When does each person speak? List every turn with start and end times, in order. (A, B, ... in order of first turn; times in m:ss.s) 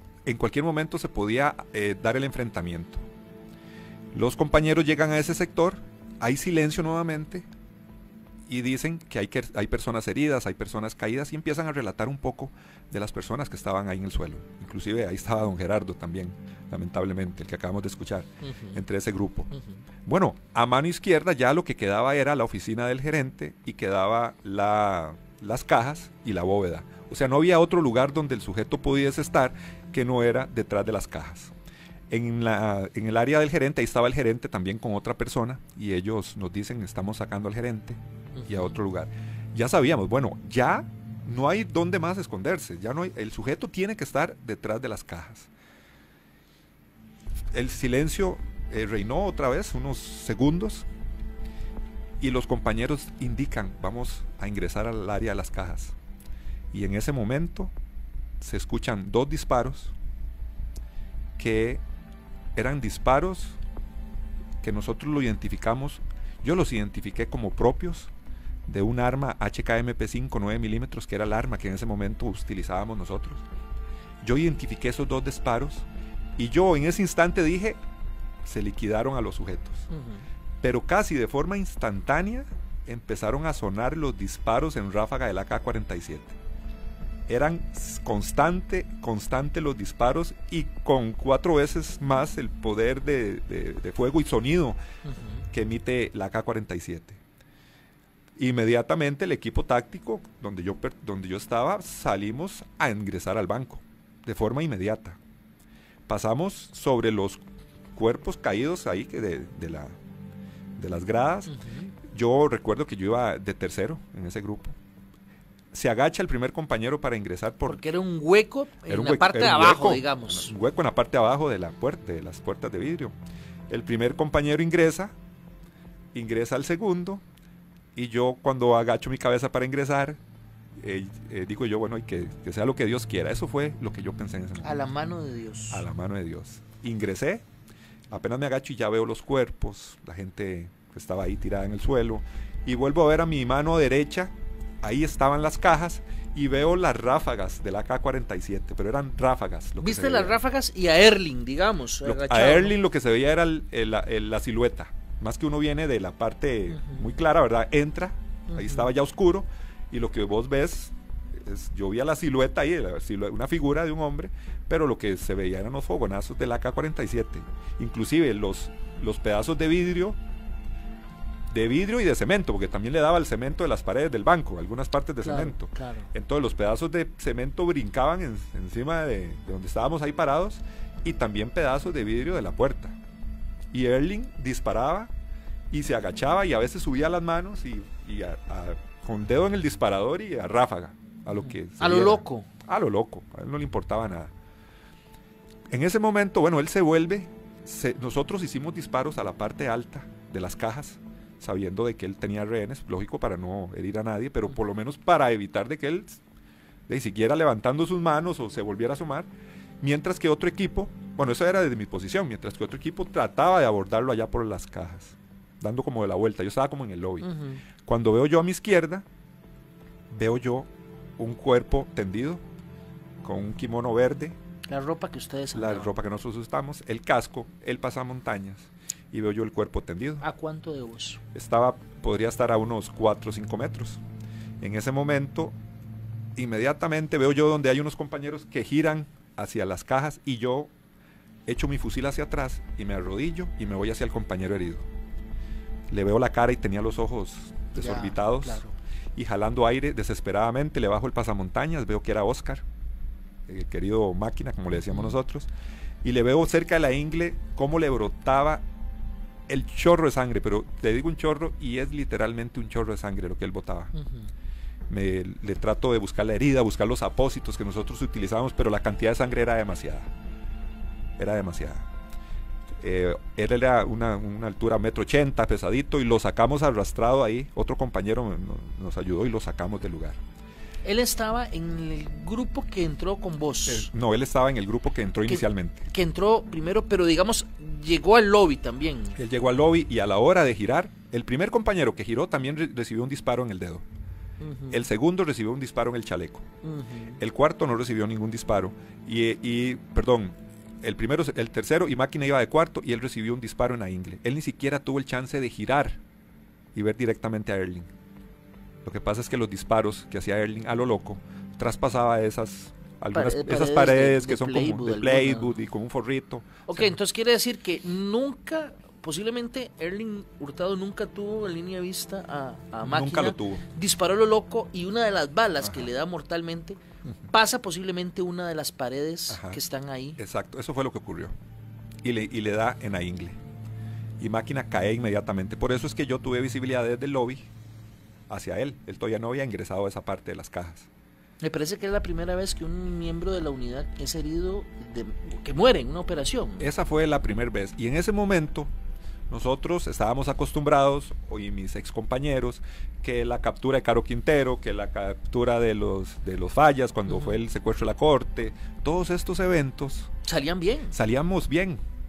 0:00.2-0:03.0 A
0:04.1-0:07.5 A
0:08.5-0:19.5 A
0:18.4-0:18.8 B
0:19.5-0:19.8 B
0:20.0-0:31.5 A
0:32.1-0:45.5 A
0:38.3-0:38.8 B
0:47.5-0:50.9 A
0:52.2-0:55.9 A
0:56.7-0:57.7 A
0:58.4-0:59.9 A
1:01.4-1:01.8 A
1:02.6-1:03.6 A
1:04.6-1:08.1 A
1:08.6-1:13.4 A
1:14.2-1:15.8 A
1:16.4-1:17.8 A
1:18.4-1:19.9 A
1:19.9-1:20.2 B
1:20.6-1:26.3 A
1:27.3-1:34.8 A
1:35.0-1:35.4 B
1:35.5-1:37.2 A
1:38.4-1:45.2 A
1:46.1-1:47.4 A
1:47.9-1:50.0 A
1:50.8-1:51.5 A
1:51.5-1:51.9 B
1:52.1-1:54.8 A
1:55.7-1:57.8 A
1:57.6-2:00.5 B
1:58.9-2:03.1 A
2:03.7-2:05.1 A
2:06.1-2:07.2 A
2:07.9-2:10.2 A
2:10.8-2:14.8 A
2:14.6-2:15.8 B
2:15.7-2:17.4 A
2:18.1-2:30.4 A
2:29.8-2:32.8 B
2:32.0-2:50.2 A
2:36.7-2:37.1 B
2:38.5-2:38.9 B
2:51.5-3:03.0 A
2:55.2-2:56.1 B
3:03.7-3:05.1 A
3:05.7-3:14.3 A
3:11.3-3:12.5 B
3:15.7-3:26.2 A
3:26.9-3:39.0 A
3:37.2-3:37.6 B
3:40.1-3:42.4 A
3:43.2-3:44.4 A
3:44.7-3:45.9 B
3:45.5-3:50.2 A
3:50.2-3:51.2 B
3:51.3-3:54.0 A
3:54.6-3:55.5 A
3:56.4-4:00.7 A
4:01.4-4:04.9 A
4:05.9-4:08.6 A
4:07.7-4:08.7 B
4:09.1-4:12.6 A
4:13.5-4:15.5 A
4:14.8-4:15.1 B
4:16.0-4:18.6 A
4:19.5-4:23.9 A
4:23.9-4:24.3 B
4:24.9-4:30.1 A
4:31.2-4:31.9 A
4:32.8-4:40.2 A
4:40.8-4:43.9 B
4:43.6-4:45.9 A
4:45.3-4:49.2 B
4:49.2-4:53.8 A
4:54.4-4:54.8 B
4:54.7-4:56.5 A
4:56.6-4:57.2 B
4:57.2-5:06.0 A
5:06.7-5:07.9 A
5:08.8-5:17.0 A
5:13.1-5:15.5 B
5:16.7-5:30.2 B
5:22.8-5:23.6 A
5:25.6-5:25.9 A
5:29.3-5:29.6 A
5:30.2-5:31.3 A
5:32.0-5:33.4 A
5:34.2-5:37.5 A
5:38.3-5:40.9 A
5:41.4-5:46.7 B
5:46.6-5:48.7 A
5:49.3-6:00.1 A
5:57.1-5:57.4 B
6:00.2-6:01.0 B
6:00.9-6:01.8 A